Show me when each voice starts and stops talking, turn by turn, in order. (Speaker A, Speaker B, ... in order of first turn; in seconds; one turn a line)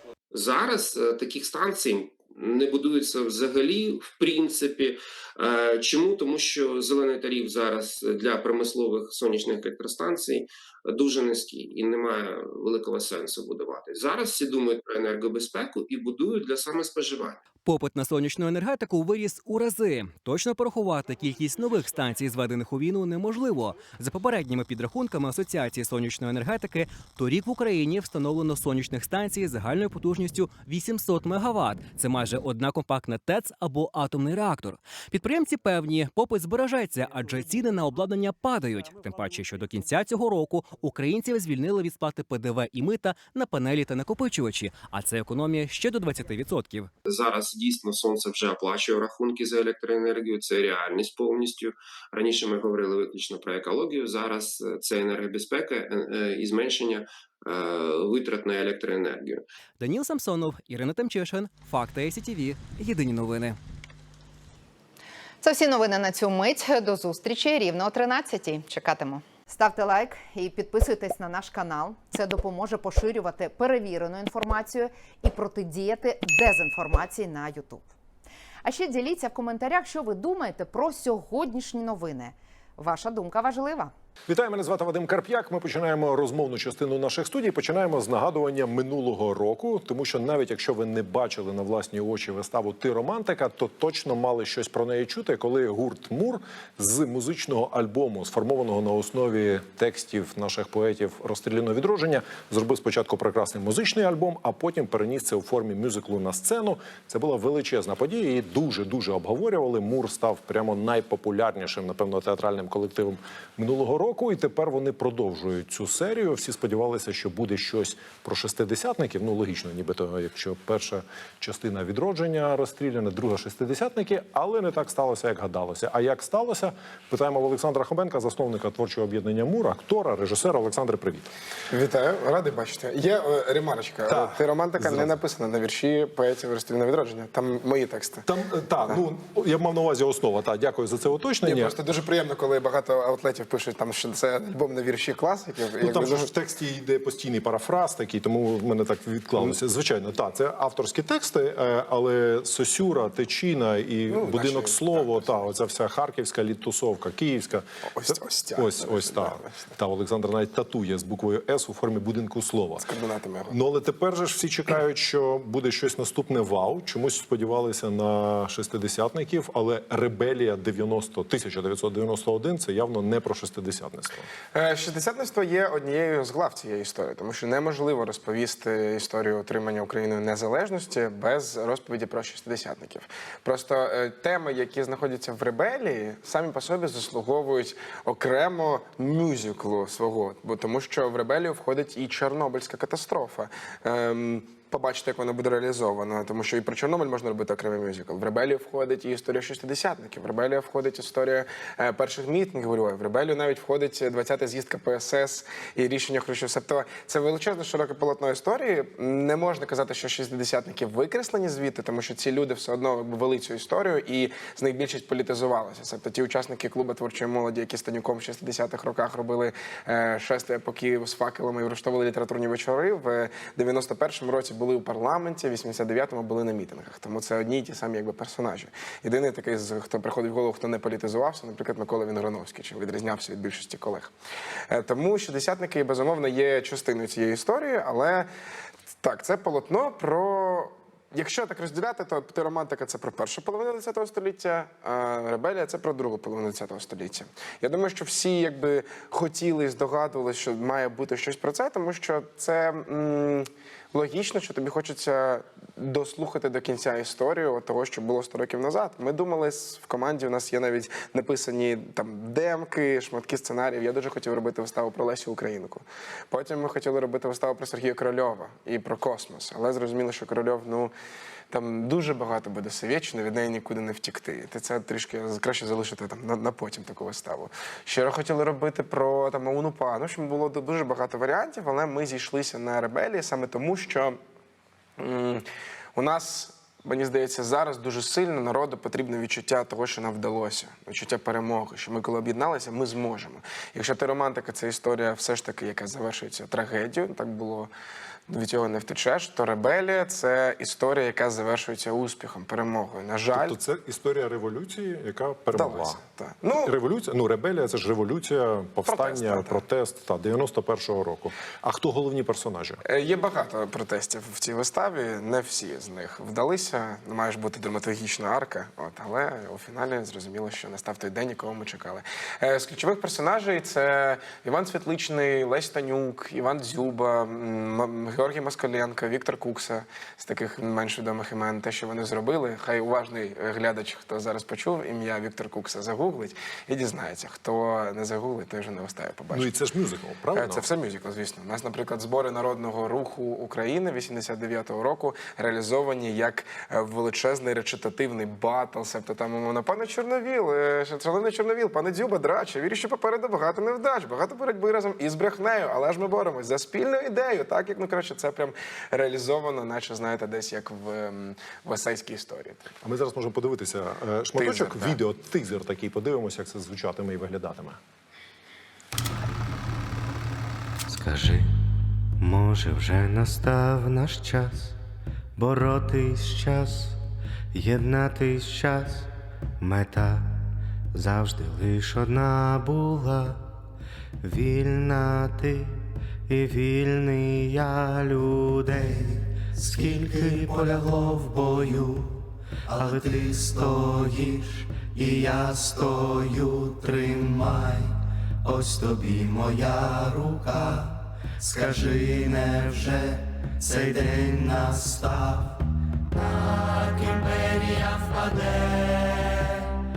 Speaker A: 0.3-17.4
Speaker B: 17.6-46.9
Speaker A: 47.1-59.4
Speaker B: 59.8-63.6
Speaker C: 65.4-77.8
Speaker C: 78.6-83.9
Speaker D: 84.3-131.3
Speaker E: 131.7-138.2
Speaker D: 134.1-135.1
Speaker D: 138.2-141.8
Speaker E: 141.4-146.3
Speaker D: 145.8-162.9
Speaker E: 154.1-155.5
Speaker E: 157.9-159.7
Speaker E: 162.8-163.6
Speaker D: 163.5-174.3
Speaker E: 174.5-234.1
Speaker E: 234.7-238.3
Speaker E: 239.0-270.9
Speaker E: 271.5-284.2
Speaker E: 285.0-297.7
Speaker E: 298.3-303.6
Speaker D: 303.3-306.0
Speaker E: 305.5-306.7
Speaker D: 306.6-312.8
Speaker E: 308.9-309.6
Speaker E: 312.9-339.5
Speaker D: 339.3-340.7
Speaker E: 340.3-362.6
Speaker D: 362.8-367.8
Speaker E: 364.4-365.0
Speaker F: 370.9-371.6
Speaker F: 372.2-374.8
Speaker F: 375.4-377.0
Speaker F: 377.5-380.4
Speaker F: 380.9-383.4
Speaker F: 384.2-397.9
Speaker F: 398.4-405.6
Speaker F: 406.1-409.4